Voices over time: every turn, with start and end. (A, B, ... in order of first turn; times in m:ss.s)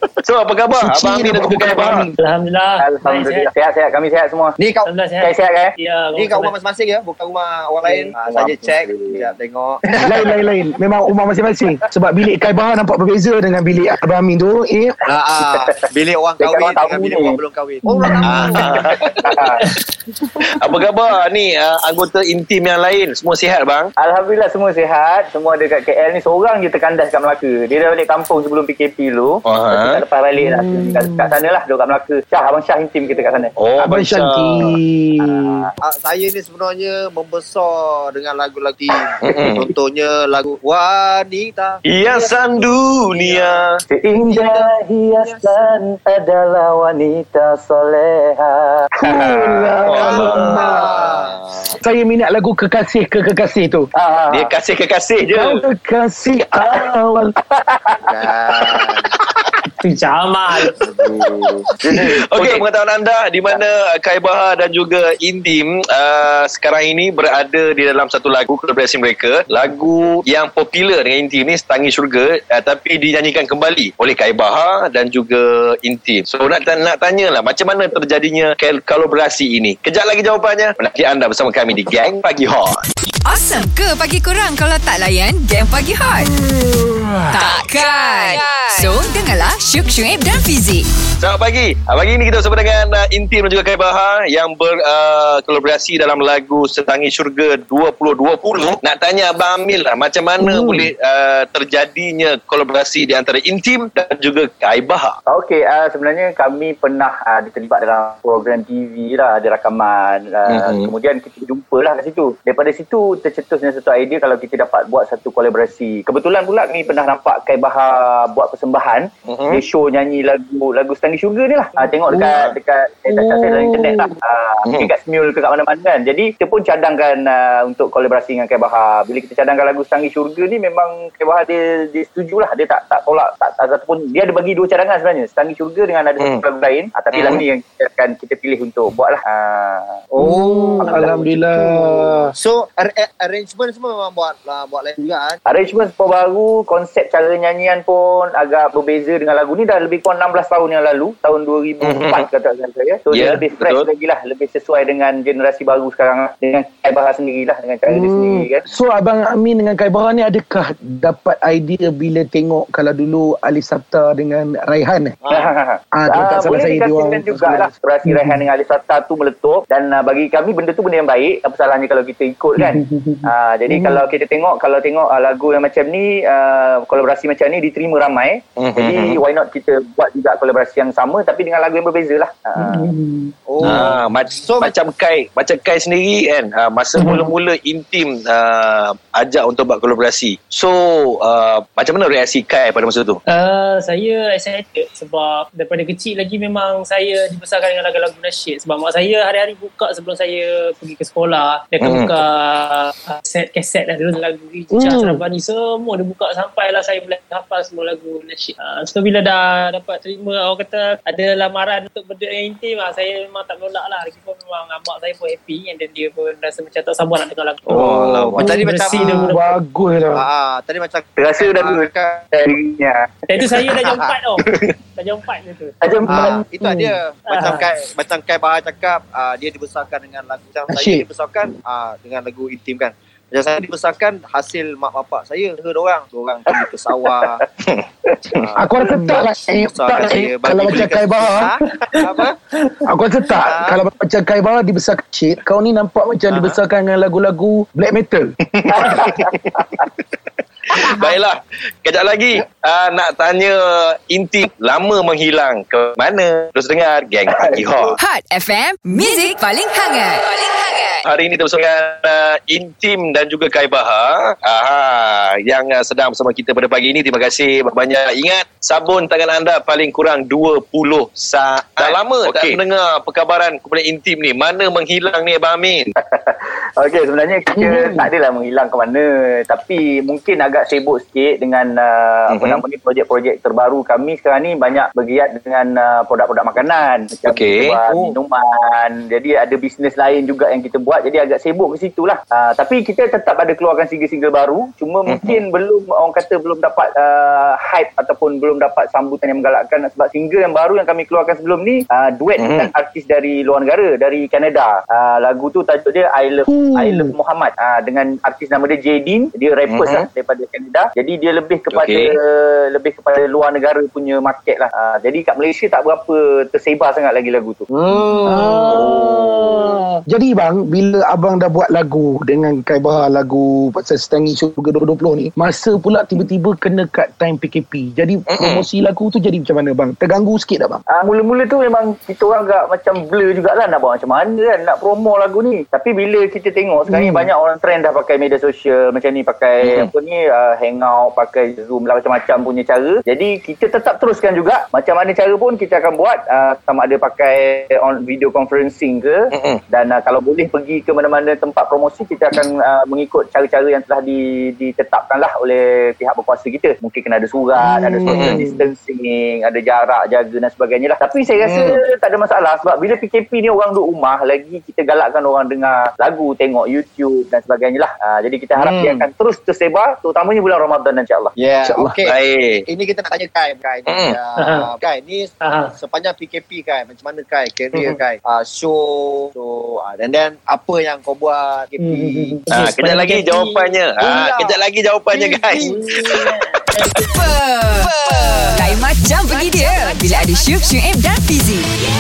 0:00.2-0:02.1 A
0:00.8-0:02.2 B
0:02.2-0:03.5 C
0:02.8-0:04.6 D
0:04.6-0:04.9 E
0:04.9-0:06.6 C
0:05.2-0:05.7 D
0:06.1-0:10.3 E
0:07.9-0:09.2 D
0:10.0-0:14.9 B
0:15.1-0:19.1 E
0:16.4-0:17.4 D
0:17.9-0:18.7 B
0:18.3-0:19.3 A
0:19.2-0:19.6 D
0:20.6-0:23.9 A
0:24.0-0:33.5 D
0:29.5-0:30.0 A
0:30.4-0:31.3 B
0:33.6-0:34.8 A
0:33.8-0:35.6 B
0:35.2-0:35.7 D
0:35.8-0:41.8 E
0:39.2-0:39.7 A
0:41.9-0:43.8 A
0:43.1-0:43.6 E
0:43.9-0:48.8 D
0:44.2-0:45.5 E
0:49.0-0:51.1 B
0:49.1-0:51.6 A
0:49.9-0:51.4 E
0:50.2-0:50.6 D
0:51.8-0:53.9 B
0:54.0-0:54.5 D
0:54.3-0:55.7 A
0:55.2-0:57.3 B
0:57.7-0:57.9 D
0:58.1-0:59.1 E
0:59.8-1:00.7 C
1:00.8-1:01.6 E
1:01.8-1:22.8 A
1:23.3-1:26.3 F
1:26.5-1:27.2 B
1:27.3-1:30.9 F
1:31.2-1:45.2 A
1:40.4-1:40.9 B
1:45.3-2:20.0 D
1:50.5-1:50.9 A
1:59.3-1:59.6 A
2:02.3-2:02.6 A
2:03.1-2:04.1 B
2:17.1-2:17.4 A
2:20.1-2:25.4 E
2:20.2-2:22.3 B
2:20.8-2:21.2 D
2:25.5-2:38.6 D
2:31.8-2:32.3 A
2:33.1-2:33.9 A
2:37.9-2:45.2 B
2:45.2-2:45.5 E
2:45.3-3:02.9 D
2:45.9-2:47.7 B
2:52.7-2:53.2 C
2:53.7-2:54.0 B
2:58.6-2:59.2 A
3:02.7-3:03.3 C
3:03.5-3:04.8 E
3:03.6-3:13.2 A
3:07.0-3:07.3 C
3:13.3-3:37.9 C
3:21.8-3:22.2 A
3:24.7-3:25.2 B
3:37.7-3:39.1 E
3:37.7-3:38.6 A
3:38.4-3:40.2 B
3:38.5-3:39.6 C
3:40.1-3:42.2 E
3:41.2-3:43.0 D
3:43.3-3:45.7 C
3:43.6-3:44.1 E
3:45.8-3:46.4 D
3:46.1-3:57.4 E
3:46.2-3:46.9 B
3:47.3-3:47.7 C
3:50.7-3:51.0 B
3:58.4-4:02.4 E
3:58.6-4:01.5 B
4:02.9-4:08.3 B
4:03.4-4:03.8 E
4:06.3-4:06.6 E
4:08.5-4:09.2 A
4:08.8-4:09.6 D
4:10.8-4:18.0 A
4:18.0-4:21.0 F
4:21.0-4:35.9 A
4:36.0-5:17.7 D
4:37.6-4:38.1 B
4:42.3-4:42.6 A
4:47.3-4:47.7 A
4:47.9-4:48.2 E
4:55.1-4:55.4 A
5:02.4-5:02.7 A
5:06.5-5:07.1 B
5:09.7-5:10.1 A
5:11.7-5:12.1 A
5:17.7-5:18.8 E
5:18.2-5:30.8 B
5:18.7-5:19.5 A
5:28.3-5:28.7 A
5:30.9-5:49.2 D
5:36.9-5:37.3 B
5:39.6-5:39.9 A
5:49.3-5:49.6 A
5:49.7-6:11.3 D
5:57.6-5:58.7 B
5:58.1-5:58.4 A
6:01.4-6:01.8 E
6:08.6-6:09.0 A
6:11.4-6:12.2 E
6:11.6-6:12.0 B
6:12.1-6:12.6 A
6:12.7-6:22.4 E
6:13.9-6:14.2 A
6:14.4-6:14.7 C
6:15.4-6:15.8 C
6:21.8-6:23.8 C
6:22.5-6:26.2 A
6:24.0-6:26.3 E
6:25.6-6:26.5 C
6:27.1-6:31.7 F